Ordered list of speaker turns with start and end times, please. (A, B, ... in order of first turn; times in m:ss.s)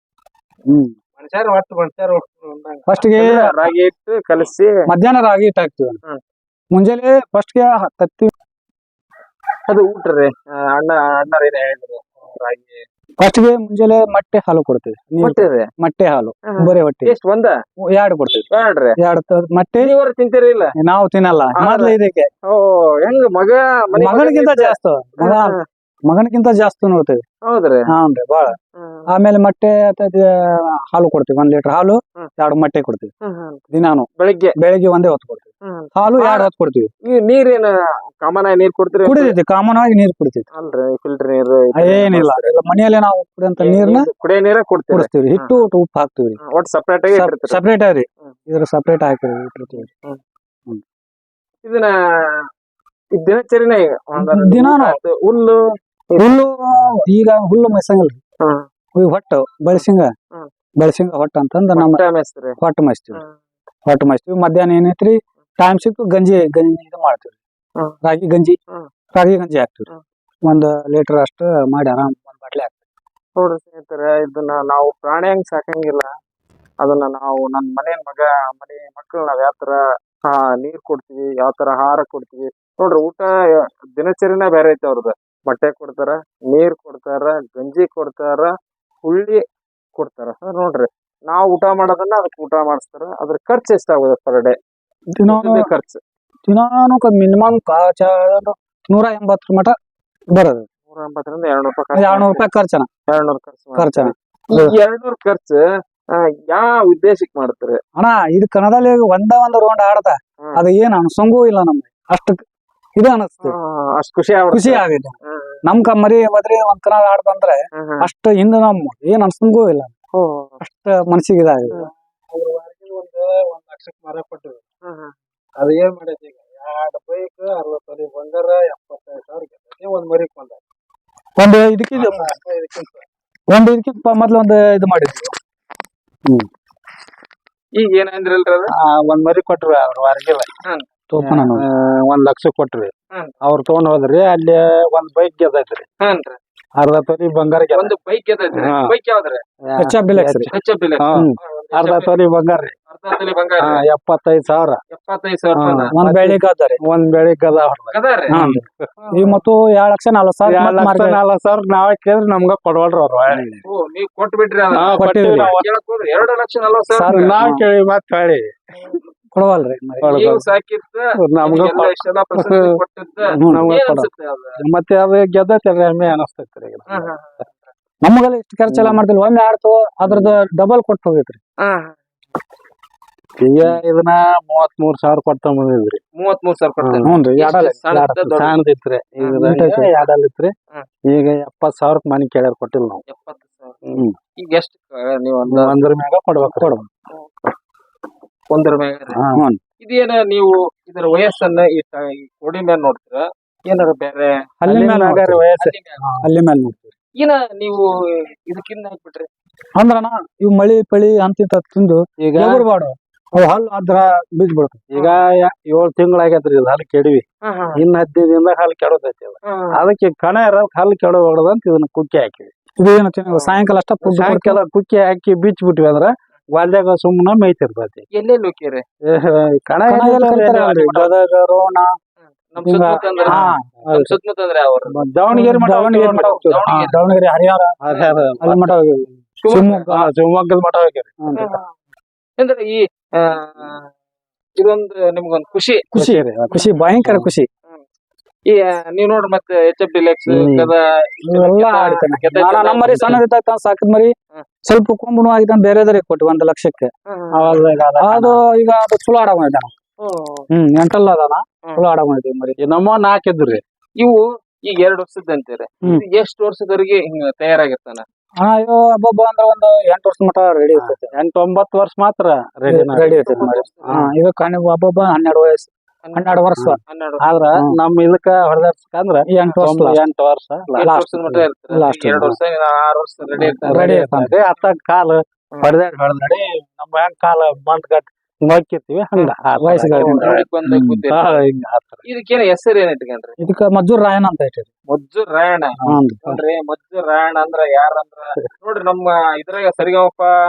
0:00.7-0:00.9 A
0:01.2-0:02.9 B
0:02.9-0:03.6 A
0:03.2-0:04.8 C
0:04.9-0:06.0 A
0:06.7-0:08.3 A
0:09.7-0:12.8 C
0:13.2-0:17.2 A
0:15.2-0:15.7 C
0:16.5-0:17.5 C
0:18.0-0:18.5 A
0:18.5-0:19.0 C
0:19.0-0:19.9 A
0:19.8-0:20.7 C
0:20.8-0:22.3 A
0:21.6-0:22.0 C
0:22.5-0:25.6 C
0:24.0-0:27.2 A
0:27.4-0:27.9 C
0:27.9-0:28.5 A
0:28.8-0:29.1 C
0:29.1-0:30.3 A
0:30.9-0:33.1 A
0:33.2-0:33.6 C
0:33.7-0:36.9 A
0:34.2-0:34.6 C
0:35.6-0:36.5 C
0:37.1-0:39.4 C
0:39.0-0:40.5 A
0:40.5-0:42.5 C
0:41.8-0:44.1 A
0:43.6-0:45.6 C
0:44.9-0:46.4 A
0:46.4-0:47.6 C
0:47.1-0:49.9 A
0:49.7-0:50.2 C
0:51.6-0:52.4 C
0:53.1-0:55.6 C
0:54.2-0:55.0 A
0:56.2-0:58.2 A
0:59.0-1:00.1 A
0:59.7-1:00.5 C
1:00.8-1:02.0 A
1:01.8-1:02.6 C
1:02.6-1:03.2 A
1:03.9-1:07.4 A
1:08.0-1:08.6 A
1:09.1-1:09.9 A
1:10.5-1:12.8 A
1:13.4-1:16.1 C
1:16.8-1:23.3 C
1:24.0-1:28.5 C
1:29.0-1:29.4 C
1:30.0-1:34.6 C
1:35.2-1:35.7 A
1:35.3-1:36.0 C
1:36.5-1:39.7 A
1:40.4-1:40.7 A
1:40.9-1:42.5 C
1:41.9-1:42.9 A
1:43.1-1:45.6 C
1:43.8-1:44.7 A
1:46.2-1:47.8 C
1:48.0-1:52.4 A
1:53.0-1:53.6 A
1:53.4-1:55.6 C
1:54.5-1:59.9 A
1:57.8-1:58.1 C
2:00.2-2:00.6 C
2:00.6-2:01.8 A
2:01.8-2:04.6 B
2:04.8-2:05.1 C
2:05.6-2:10.6 B
2:11.4-2:12.3 A
2:11.9-2:13.0 B
2:13.5-2:15.3 A
2:17.8-2:18.7 C
2:18.7-2:20.5 B
2:21.1-2:21.6 A
2:21.2-2:25.8 B
2:26.0-2:26.4 C
2:26.8-2:27.9 B
2:27.7-2:29.4 C
2:28.5-2:28.9 B
2:29.6-2:32.7 B
2:29.8-2:30.5 A
2:30.5-2:32.1 C
2:32.9-2:33.8 C
2:33.6-2:34.8 B
2:34.9-2:35.9 C
2:35.6-2:38.8 B
2:35.9-2:36.8 A
2:37.9-2:38.4 C
2:38.3-2:38.6 A
2:39.1-2:41.2 A
2:40.4-2:43.5 B
2:43.3-2:43.6 A
2:43.6-2:47.4 C
2:44.7-2:45.7 B
2:45.0-2:45.5 A
2:46.9-2:47.6 A
2:47.1-2:48.5 B
2:49.3-2:50.2 A
2:50.0-2:50.4 B
2:50.1-2:54.5 C
2:51.2-2:52.6 B
2:53.3-2:53.7 A
2:53.5-2:57.1 B
2:56.9-2:57.7 C
2:58.0-3:01.4 A
2:58.7-2:59.0 B
3:00.1-3:00.3 B
3:01.6-3:02.0 C
3:03.4-3:06.0 B
3:06.2-3:08.6 C
3:06.8-3:07.1 B
3:07.0-3:08.3 A
3:08.3-3:10.5 B
3:09.4-3:09.9 A
3:11.1-3:13.0 B
3:13.1-3:13.8 C
3:13.9-3:14.2 B
3:14.4-3:15.8 C
3:15.5-3:16.7 B
3:16.6-3:16.9 A
3:18.5-3:19.2 C
3:19.1-3:19.4 B
3:19.4-3:19.6 A
3:19.8-3:24.3 C
3:24.6-3:25.5 A
3:24.7-3:26.3 B
3:25.6-3:26.0 C
3:26.2-3:26.9 A
3:27.2-3:29.3 C
3:29.8-3:34.8 A
3:32.2-3:32.6 B
3:34.9-3:42.5 B
3:35.0-3:35.2 C
3:37.4-3:37.8 C
3:39.4-3:39.8 C
3:42.8-3:44.6 A
3:43.3-3:43.6 C
3:44.0-3:48.0 B
3:48.1-3:48.8 C
3:49.1-3:51.1 B
3:49.9-3:51.9 A
3:52.2-3:55.0 C
3:52.6-3:54.1 A
3:53.3-3:54.1 B
3:54.9-3:56.9 B
3:55.3-3:57.8 A
3:56.1-3:57.0 C
3:57.8-3:58.8 B
3:57.9-3:58.4 C
3:58.4-4:00.0 A
3:59.4-3:59.8 C
3:59.9-4:01.2 B
4:01.2-4:01.6 A
4:01.4-4:01.7 C
4:02.4-4:03.9 C
4:04.6-4:05.8 C
4:05.9-4:07.5 A
4:06.0-4:07.3 B
4:08.5-4:13.2 C
4:10.3-4:10.7 B
4:11.3-4:16.9 A
4:17.1-4:17.7 C
4:17.3-4:18.4 B
4:18.0-4:19.7 A
4:20.0-4:20.5 C
4:20.5-4:22.6 A
4:22.6-4:23.6 B
4:24.0-4:28.0 C
4:28.4-4:31.1 A
4:30.8-4:33.3 B
4:32.7-4:36.8 A
4:33.1-4:34.0 C
4:33.8-4:34.1 B
4:36.0-4:37.3 C
4:36.6-4:41.5 B
4:39.3-4:40.0 A
4:40.8-4:44.0 C
4:40.8-4:41.1 A
4:41.7-4:42.3 A
4:43.4-4:50.5 B
4:43.7-4:44.3 A
4:49.6-4:51.0 A
4:49.9-4:51.4 C
4:51.1-4:52.0 B
4:52.0-4:53.4 C
4:53.4-4:54.7 A
4:54.9-5:00.3 C
4:55.8-4:56.4 B
4:55.9-4:56.2 A